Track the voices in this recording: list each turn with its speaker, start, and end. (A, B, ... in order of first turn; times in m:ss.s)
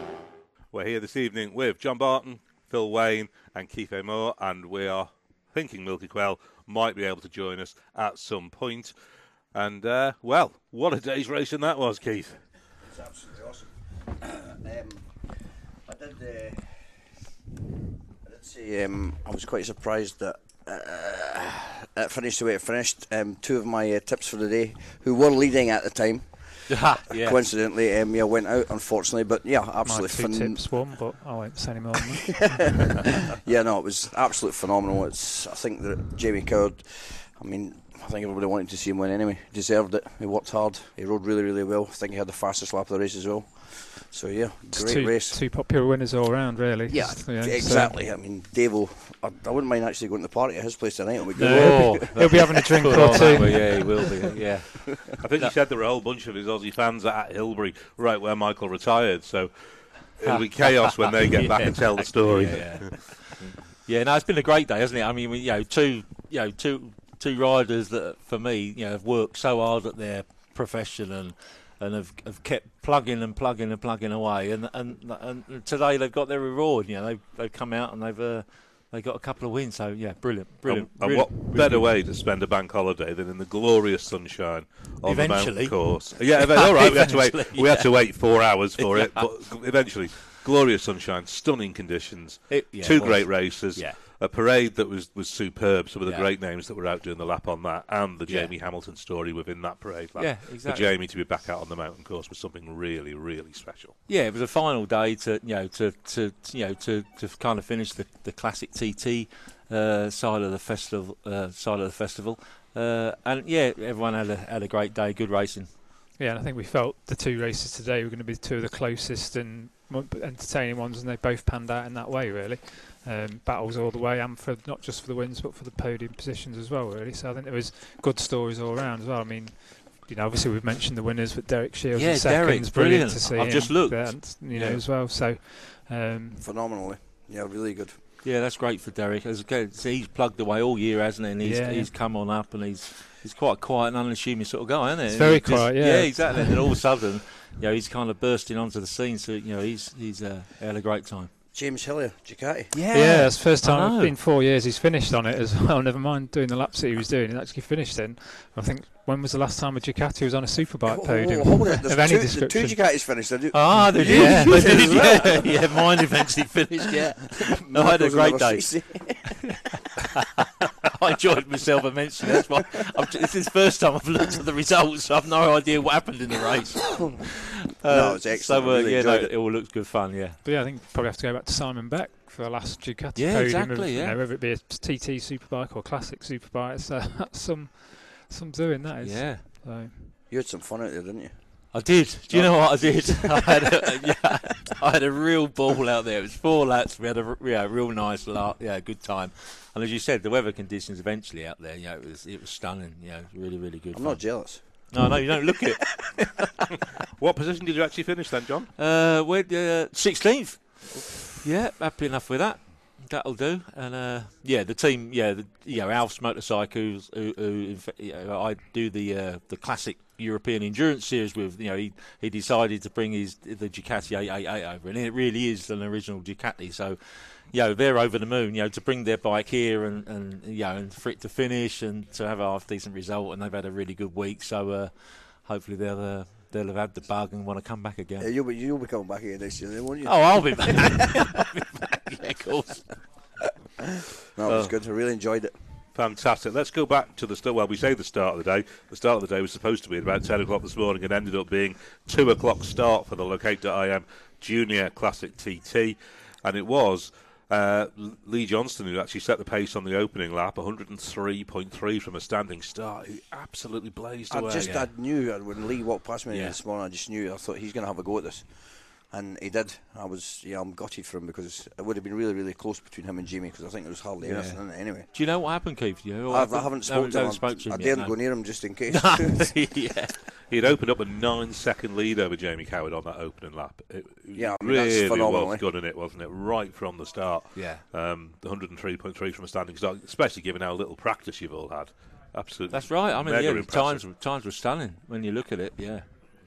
0:00.7-0:08.9 A
0:09.5-0:12.5 A
0:12.8-0:17.1 B
0:18.2-0:31.0 B
0:26.7-0:27.4 C
0:29.8-0:32.7 D
0:32.4-0:45.4 B
0:44.7-0:48.0 D
0:46.9-0:55.1 B
0:51.4-0:53.9 D
0:51.4-0:55.6 C
0:55.2-1:03.3 A
1:00.2-1:22.0 C
1:20.7-1:44.0 A
1:25.0-1:29.8 C
1:32.5-1:34.0 C
1:38.3-1:38.5 C
1:40.2-1:41.0 C
1:44.1-1:55.7 C
1:56.2-2:16.4 D
2:12.0-2:14.8 C
2:16.4-2:18.0 B
2:18.2-2:31.3 C
2:21.4-2:21.9 D
2:25.1-2:26.8 D
2:31.5-2:32.7 B
2:32.7-2:34.2 C
2:32.9-2:43.2 D
2:40.9-2:46.0 B
2:43.5-2:49.4 C
2:43.7-2:44.8 D
2:46.8-2:49.6 B
2:50.8-3:00.4 C
2:57.8-2:59.4 B
3:00.4-3:10.2 D
3:03.2-3:04.2 C
3:09.0-3:09.4 C
3:10.3-3:13.7 B
3:11.7-3:26.4 C
3:23.9-3:26.5 B
3:27.2-3:28.7 A
3:28.8-3:58.3 C
3:58.2-4:01.3 B
4:00.0-4:03.4 C
4:04.3-4:05.6 B
4:04.4-4:04.8 A
4:05.9-4:24.8 A
4:24.3-4:35.1 B
4:24.6-4:24.9 C
4:26.3-4:26.6 C
4:34.2-4:40.2 C
4:36.3-4:39.6 B
4:40.5-4:54.1 A
4:44.3-4:45.7 B
4:47.6-4:47.9 C
4:52.7-4:56.1 C